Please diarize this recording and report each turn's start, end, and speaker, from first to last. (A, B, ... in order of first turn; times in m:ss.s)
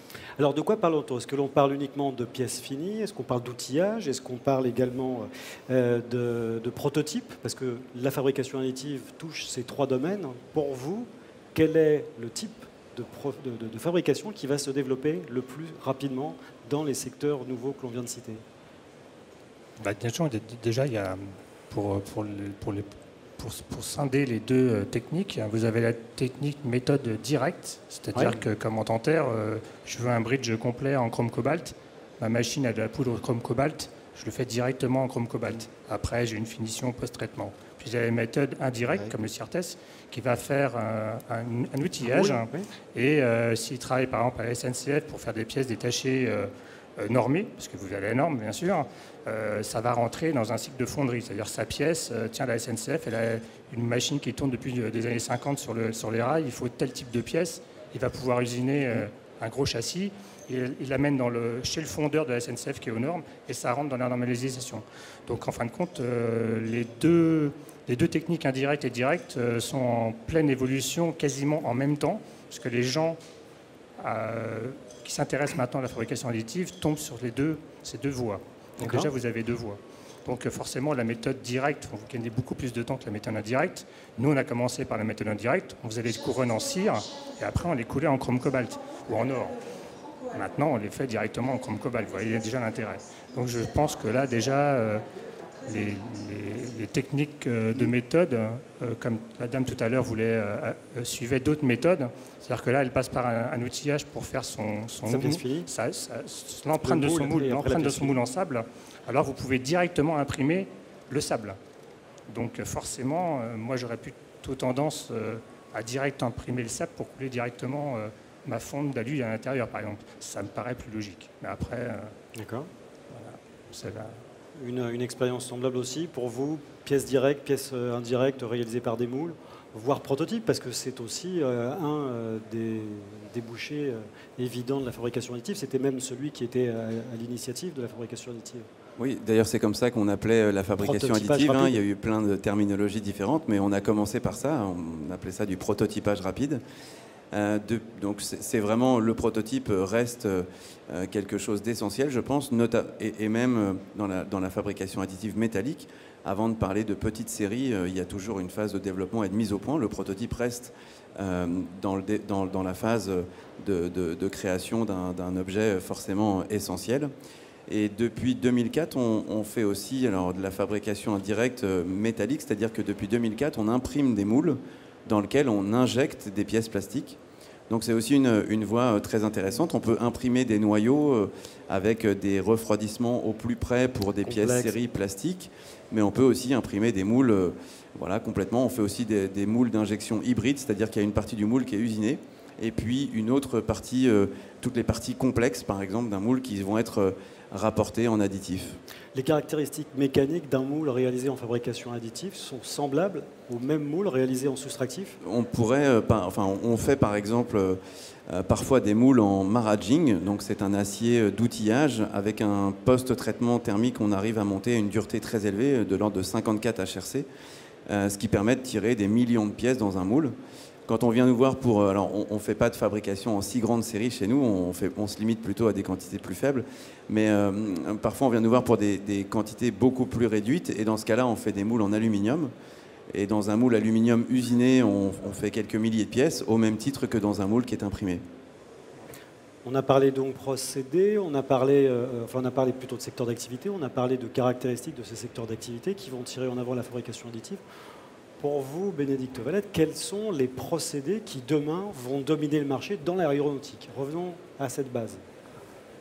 0:00.4-0:18.4 A
0:19.8-1:13.2 B
0:42.0-0:42.7 A
1:14.0-1:29.6 B
1:18.8-1:19.1 A
1:30.3-1:35.1 B
1:35.6-1:51.6 B
1:45.1-1:45.7 A
1:46.8-1:48.2 A
1:52.3-2:02.2 B
2:02.4-2:02.7 A
2:03.1-2:04.2 B
2:04.6-2:18.7 A
2:19.0-2:26.6 C
2:20.8-2:21.8 A
2:27.3-2:47.1 C
2:47.7-2:57.2 C
2:57.7-3:18.8 C
3:04.2-3:04.8 A
3:19.1-3:25.2 A
3:25.2-3:37.3 C
3:37.9-3:40.4 C
3:40.9-3:52.5 C
3:53.1-3:58.2 C
3:59.6-4:07.6 A
4:08.4-4:15.2 A